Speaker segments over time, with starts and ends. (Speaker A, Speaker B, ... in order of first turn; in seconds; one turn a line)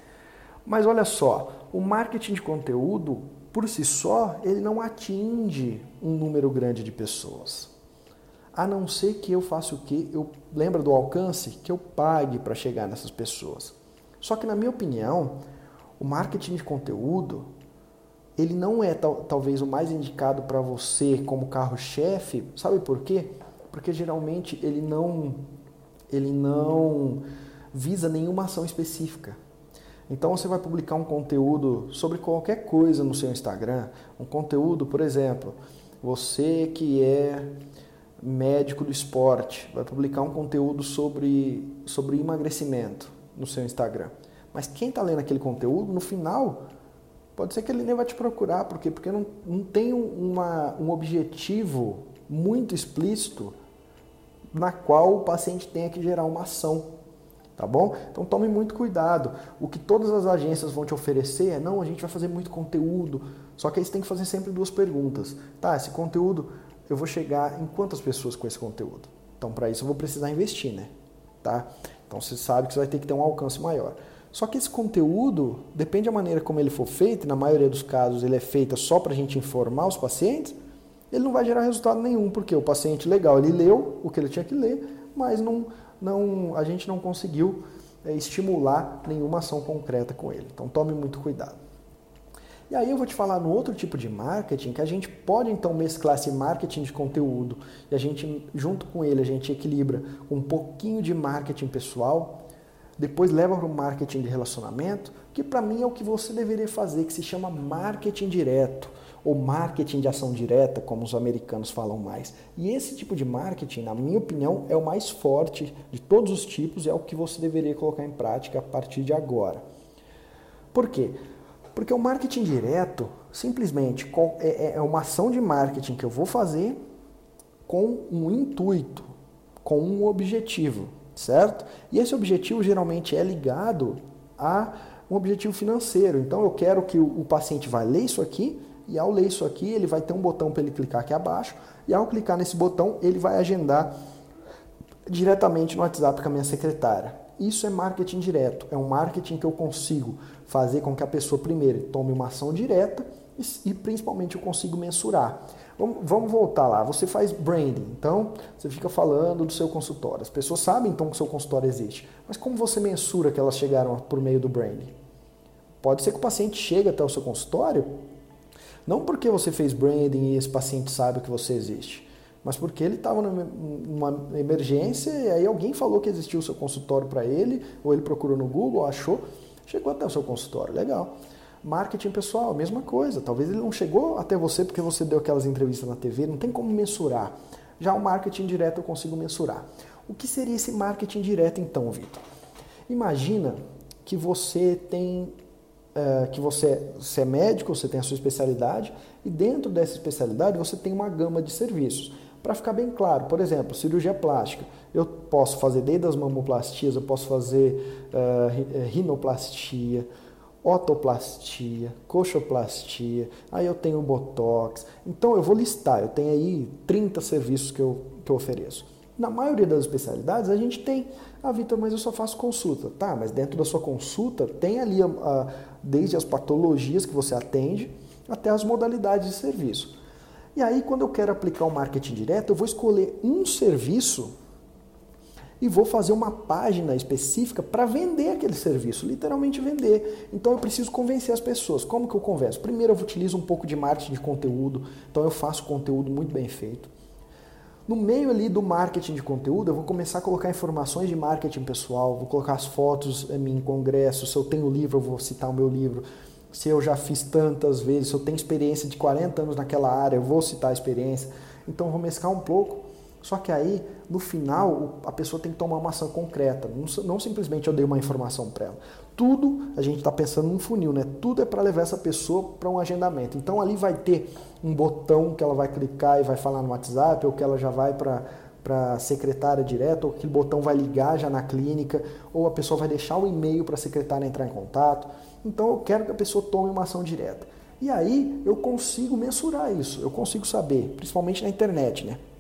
Speaker A: 0.7-7.7
Speaker A: 8.5-15.4
Speaker A: 16.0-17.5
Speaker A: 18.4-25.4
Speaker A: 26.1-29.4
Speaker A: 30.1-37.5
Speaker A: 38.2-46.6
Speaker A: 47.4-53.5
Speaker A: 54.5-56.9
Speaker A: 57.6-70.9
Speaker A: 71.4-80.6
Speaker A: 81.1-91.6
Speaker A: 92.7-102.4
Speaker A: 103.0-119.6
Speaker A: 120.7-121.2
Speaker A: 121.8-126.8
Speaker A: 127.7-129.1
Speaker A: 129.6-143.9
Speaker A: 145.1-164.9
Speaker A: 165.8-167.9
Speaker A: 168.9-181.1
Speaker A: 181.6-192.2
Speaker A: 192.9-195.3
Speaker A: 195.9-210.1
Speaker A: 210.6-229.9
Speaker A: 230.6-234.3
Speaker A: 235.6-246.9
Speaker A: 247.9-292.2